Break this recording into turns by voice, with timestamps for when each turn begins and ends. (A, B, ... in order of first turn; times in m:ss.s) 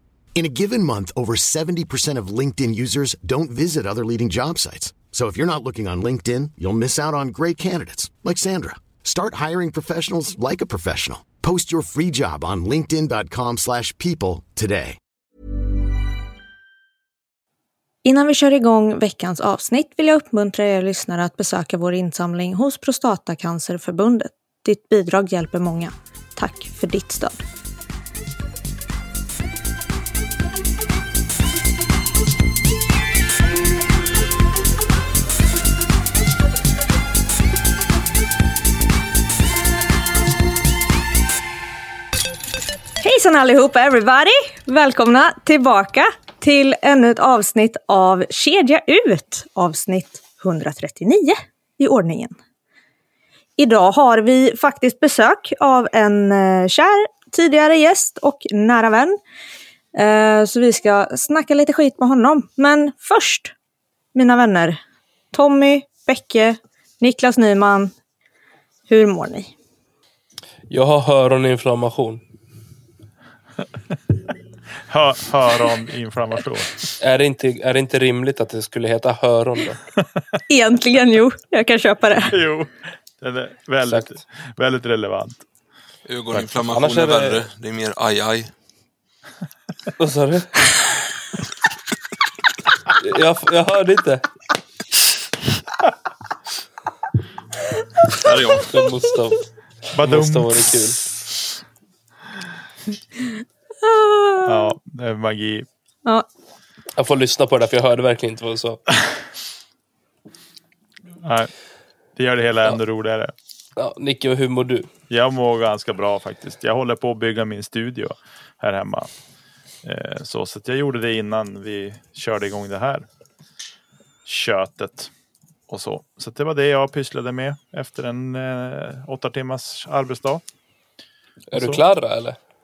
0:00.4-0:15.0 A
0:18.0-0:27.4 B
0:43.0-0:52.4 B
0:53.6-0:59.2 B
0:59.9-1:03.5 B
1:04.1-1:04.8 B
1:05.3-1:07.9 B
1:08.9-1:09.5 B
1:10.7-1:12.2 C
1:14.9-1:16.7 D
1:17.0-1:19.8 C
1:20.5-1:22.4 B
1:22.3-1:25.4 D
1:23.9-1:24.1 C
1:26.1-1:28.5 E
1:26.5-1:27.4 C
1:30.0-1:30.5 C
1:33.0-1:34.2 C
1:38.2-1:38.7 E
1:38.2-1:38.6 D
1:38.6-1:39.4 C
1:39.9-1:40.7 D
1:40.0-1:41.0 C
1:43.8-1:44.7 B
1:44.4-1:45.7 D
1:47.0-1:48.8 C
1:51.2-1:51.5 D
1:52.2-1:53.3 D
1:53.8-1:54.9 C
1:55.1-1:59.1 D
1:59.8-2:03.0 D
2:04.2-2:05.1 D
2:05.7-2:10.4 D
2:11.5-2:12.4 C
2:11.6-2:11.8 D